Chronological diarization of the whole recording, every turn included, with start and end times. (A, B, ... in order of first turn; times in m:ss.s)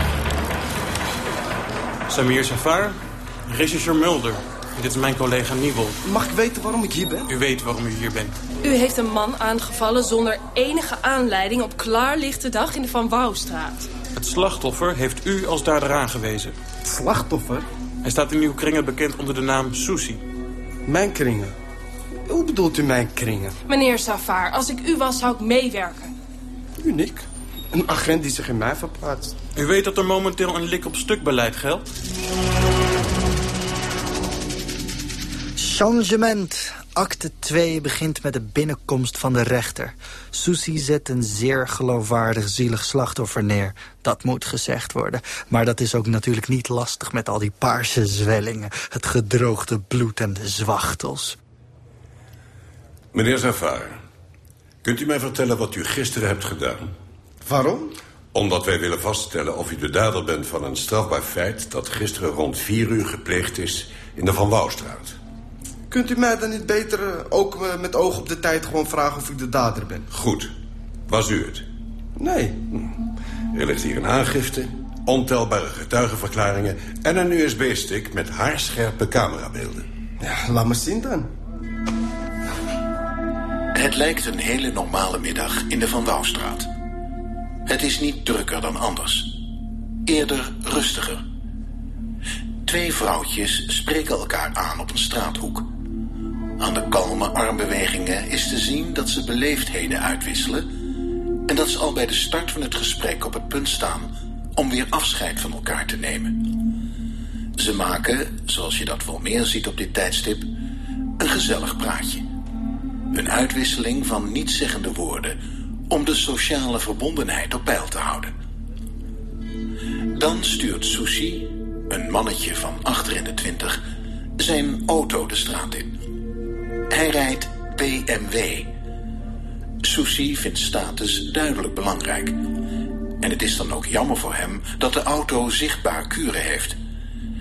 0:02.1-0:06.0 A
0:06.0-0:07.3 B
0:07.3-0:08.3 A
0:08.6-0:13.9 C
0:14.1-0:16.5 A
0:16.8-0:17.7 B
0:18.0-0:20.2 A
0:20.8-0:21.6 B
0:22.3-0:23.5 B
0:23.7-0:26.1 C
0:26.8-0:29.3 B
0:29.6-0:31.9 A
0:35.6-0:51.4 D
0:53.1-0:54.0 E
0:54.8-0:56.9 E
0:57.4-0:57.9 B
0:58.3-1:05.2 E
1:05.9-1:10.1 B
1:10.1-1:10.5 E
1:11.1-1:11.6 E
1:12.2-1:12.6 B
1:13.5-1:19.9 E
1:20.2-1:21.3 B
1:23.7-1:26.7 F
1:27.6-1:29.3 F
1:30.0-1:31.2 F
1:32.6-1:35.7 F
1:36.6-1:40.7 F
1:41.5-1:46.5 F
1:47.6-1:50.5 F
1:51.2-1:52.2 F
1:53.1-1:58.3 F
2:00.1-2:03.8 F
2:04.4-2:06.0 F
2:06.9-2:08.7 F
2:09.8-2:12.4 F
2:13.2-2:16.8 F